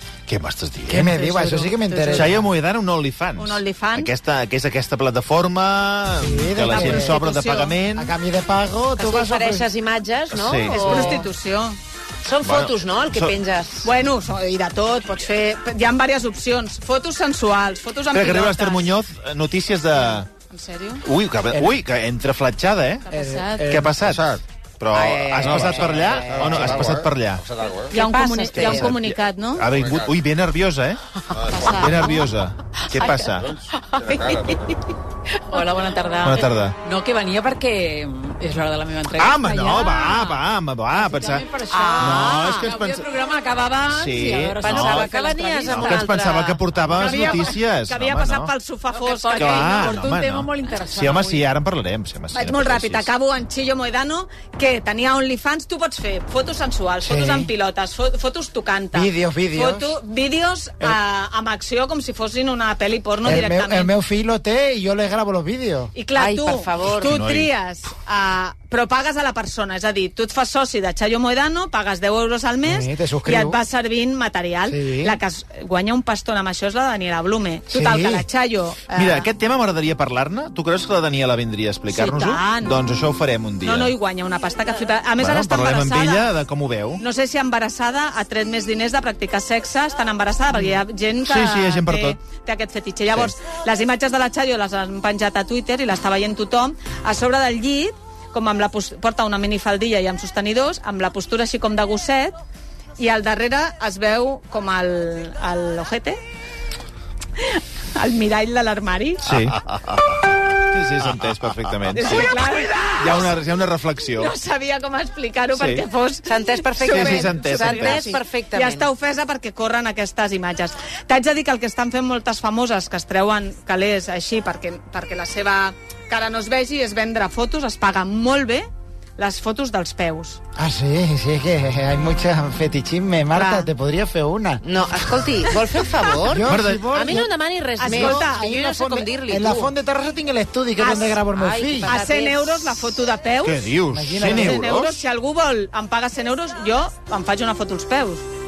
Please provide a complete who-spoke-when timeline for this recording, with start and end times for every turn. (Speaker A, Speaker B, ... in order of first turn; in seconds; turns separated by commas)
Speaker A: 0.3-1.2, Speaker B: 0.9-2.5, Speaker C: 1.0-2.4, Speaker A: 2.1-8.1, Speaker C: 3.4-4.1, Speaker B: 6.2-7.2, Speaker C: 6.7-7.8, Speaker B: 7.9-9.7, Speaker D: 9.0-11.3, Speaker A: 10.3-11.2, Speaker C: 10.7-11.8, Speaker D: 12.2-13.9, Speaker A: 12.4-13.3, Speaker C: 13.8-18.9, Speaker A: 18.1-20.3, Speaker C: 20.0-21.1, Speaker A: 21.0-23.1, Speaker B: 21.5-21.8, Speaker C: 23.1-23.8, Speaker B: 23.1-24.0, Speaker A: 23.6-27.4, Speaker E: 24.0-24.4, Speaker D: 24.9-26.9, Speaker E: 25.6-27.9, Speaker D: 27.9-29.0, Speaker C: 27.9-29.7, Speaker A: 28.6-31.0, Speaker E: 29.6-30.2, Speaker E: 31.3-32.1, Speaker C: 31.5-32.1, Speaker A: 31.7-33.6, Speaker E: 33.4-34.8, Speaker F: 33.7-34.5, Speaker F: 35.5-40.4, Speaker A: 36.2-36.8, Speaker A: 39.2-43.1, Speaker F: 40.9-46.2, Speaker D: 41.7-42.6, Speaker A: 43.9-45.1, Speaker D: 44.4-46.6, Speaker A: 45.6-48.5, Speaker C: 46.9-50.1, Speaker F: 47.0-47.5, Speaker F: 48.9-51.5, Speaker A: 49.4-53.1, Speaker C: 52.3-63.9, Speaker B: 57.0-57.5, Speaker B: 58.9-60.0, Speaker B: 63.2-65.9, Speaker C: 65.9-79.3, Speaker D: 66.1-67.2, Speaker A: 67.0-67.5, Speaker B: 72.6-73.6, Speaker B: 74.7-75.2, Speaker B: 77.7-78.2, Speaker A: 78.9-83.9, Speaker C: 81.9-82.8, Speaker C: 83.6-86.3, Speaker A: 85.2-87.0, Speaker C: 87.0-102.4, Speaker A: 90.5-92.2, Speaker C: 103.0-106.2, Speaker C: 107.4-109.3, Speaker A: 109.2-109.8, Speaker A: 110.7-114.3, Speaker C: 111.9-113.3, Speaker C: 114.2-130.4, Speaker A: 115.5-115.8, Speaker D: 116.3-118.9, Speaker A: 116.8-118.2, Speaker B: 130.6-134.6, Speaker C: 133.3-133.7, Speaker D: 134.6-139.7, Speaker B: 136.2-137.3, Speaker A: 136.4-137.2, Speaker C: 137.8-138.6, Speaker B: 137.8-141.9, Speaker C: 140.8-141.2, Speaker D: 141.3-142.6, Speaker C: 141.9-143.6, Speaker A: 143.4-145.0, Speaker B: 143.9-144.8, Speaker C: 144.2-148.2